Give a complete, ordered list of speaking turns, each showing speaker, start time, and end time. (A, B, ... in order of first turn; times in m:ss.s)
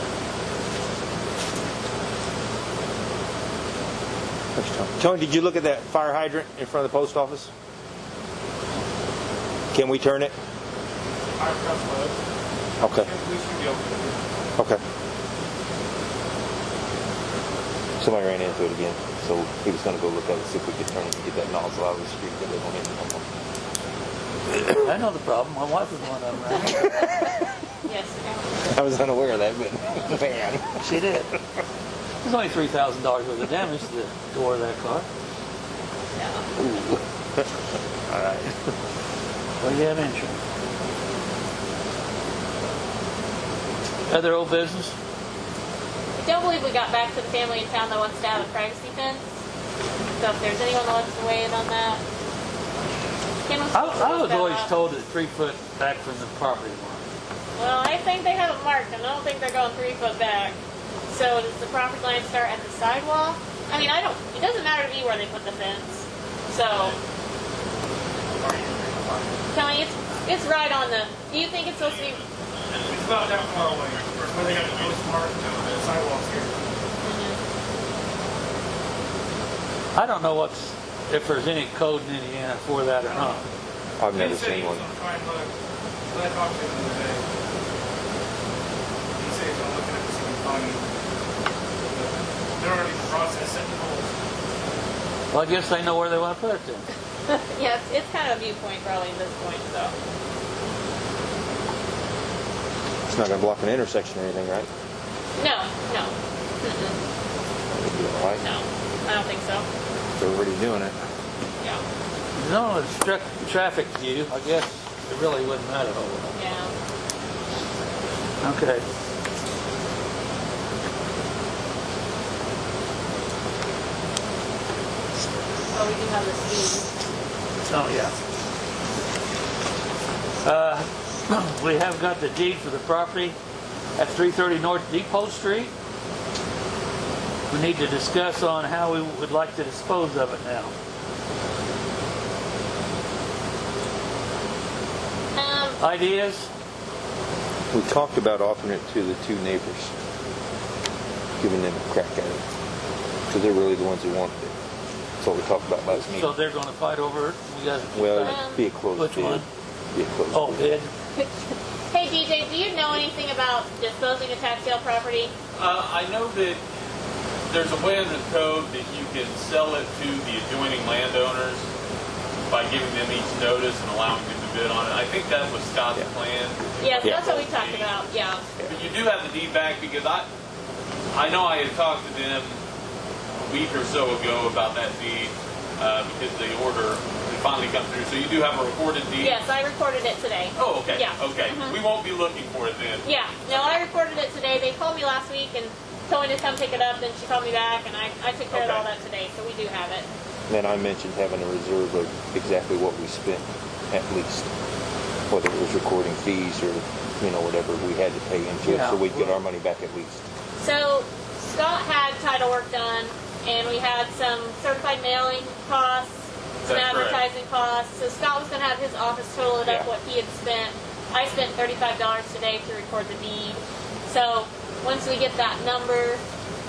0:04.6-0:07.5 A
0:09.7-0:10.3 A
0:11.4-0:12.2 B
0:12.8-0:13.1 A
0:13.0-0:14.2 B
0:18.0-0:23.3 A
0:24.6-0:27.1 C
0:27.8-0:28.7 D
0:28.7-0:30.8 A
0:30.8-0:31.3 C
0:32.2-0:35.1 C
0:36.2-0:36.5 D
0:36.6-0:37.0 A
0:38.1-0:38.6 A
0:39.6-0:40.4 C
0:44.1-0:45.0 C
0:46.2-0:49.2 D
0:50.2-0:52.0 D
0:53.4-0:54.7 D
0:53.7-0:57.1 C
0:57.6-1:00.6 D
1:01.1-1:07.0 D
1:06.7-1:07.0 E
1:08.3-1:09.3 B
1:09.5-1:12.2 D
1:11.7-1:15.1 E
1:12.9-1:16.5 B
1:17.0-1:17.4 D
1:19.9-1:23.4 C
1:24.0-1:24.8 A
1:24.1-1:25.5 B
1:26.1-1:27.2 B
1:29.2-1:30.9 B
1:31.8-1:34.1 B
1:35.3-1:36.9 C
1:37.3-1:39.9 D
1:43.1-1:44.7 A
1:45.4-1:47.0 D
1:47.7-1:48.4 A
1:48.4-1:49.6 D
1:50.2-1:50.9 A
1:52.4-1:56.4 C
1:56.3-1:56.7 D
1:58.4-1:58.8 C
2:05.7-2:06.9 D
2:07.7-2:08.1 C
2:10.4-2:13.4 C
2:14.0-2:15.7 C
2:17.5-2:20.7 C
2:25.4-2:25.8 D
2:25.8-2:26.5 C
2:27.7-2:29.9 A
2:31.4-2:32.4 A
2:33.3-2:34.5 A
2:35.2-2:36.3 A
2:35.9-2:39.4 C
2:37.9-2:40.7 A
2:38.2-2:38.6 D
2:40.3-2:40.9 C
2:41.9-2:45.3 D
2:45.6-2:46.6 E
2:47.5-2:51.7 E
2:52.5-2:58.1 E
2:56.8-2:58.4 D
2:57.0-2:57.4 A
2:58.6-3:00.3 E
3:01.1-3:02.6 E
3:03.4-3:09.4 E
3:09.2-3:11.8 D
3:10.6-3:13.8 E
3:13.0-3:20.0 D
3:18.5-3:18.9 E
3:20.5-3:24.5 A
3:25.3-3:30.2 A
3:28.6-3:29.4 C
3:30.6-3:46.2 D
3:36.6-3:37.2 E
3:39.6-3:39.9 A